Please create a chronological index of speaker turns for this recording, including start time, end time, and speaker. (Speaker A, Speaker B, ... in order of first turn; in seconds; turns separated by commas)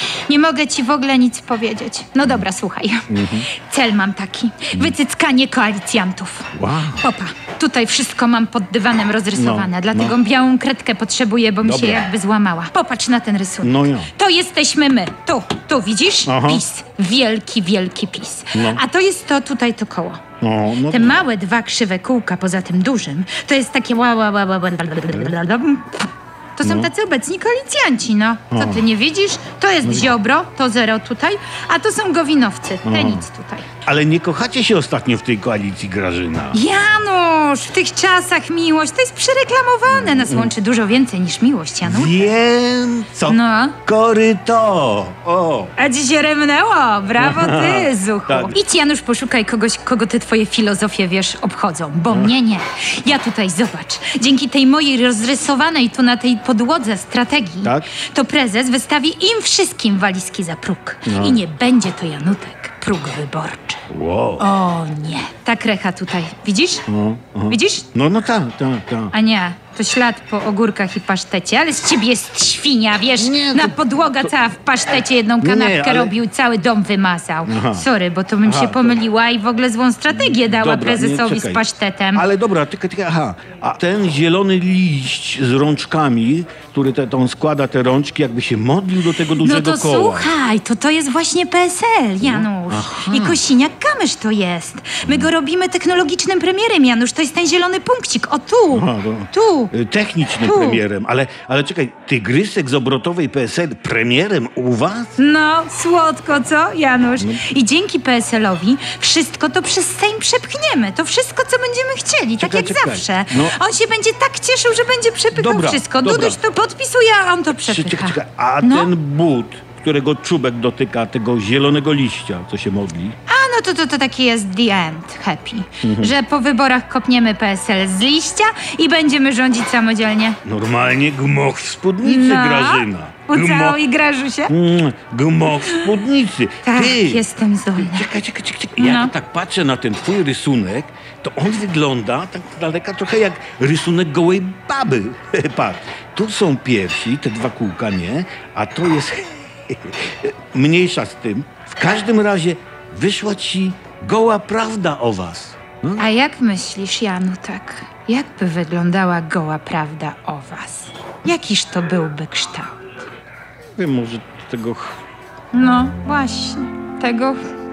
Speaker A: 0.3-20.2, Speaker B: 3.1-3.5, Speaker B: 6.5-7.1, Speaker B: 9.3-10.2, Speaker B: 11.6-12.1, Speaker B: 13.6-14.1, Speaker B: 16.3-16.6, Speaker B: 18.5-18.8, Speaker B: 20.4-21.2, Speaker A: 20.9-33.7, Speaker B: 26.6-26.9, Speaker B: 28.5-28.9, Speaker B: 29.8-30.1, Speaker B: 32.8-33.2, Speaker B: 33.9-36.6, Speaker A: 36.5-42.3, Speaker B: 39.9-40.5, Speaker B: 41.8-45.7, Speaker A: 43.3-43.8, Speaker A: 45.8-63.8, Speaker B: 47.2-48.5, Speaker B: 57.6-57.9, Speaker B: 61.1-61.4, Speaker B: 63.9-64.5, Speaker A: 64.4-66.8, Speaker B: 66.9-69.1, Speaker A: 67.5-67.9, Speaker A: 69.1-82.3, Speaker B: 73.2-74.3, Speaker B: 75.4-76.2, Speaker B: 77.5-77.9, Speaker B: 78.4-79.0, Speaker B: 80.1-81.6, Speaker B: 82.1-90.3, Speaker A: 89.4-99.7, Speaker B: 92.2-93.4, Speaker B: 95.0-95.3, Speaker B: 98.7-105.2, Speaker A: 100.4-100.8, Speaker A: 105.2-118.9, Speaker B: 107.2-107.4, Speaker B: 112.4-113.6, Speaker B: 115.3-116.4, Speaker B: 117.7-123.2, Speaker A: 123.3-130.4, Speaker B: 125.8-126.2, Speaker B: 130.4-133.8, Speaker A: 132.0-134.5, Speaker B: 134.5-137.2, Speaker A: 135.6-136.0, Speaker A: 136.6-138.1, Speaker B: 137.8-156.1, Speaker A: 138.8-139.1, Speaker A: 156.0-163.0, Speaker B: 163.8-165.0, Speaker A: 165.5-167.5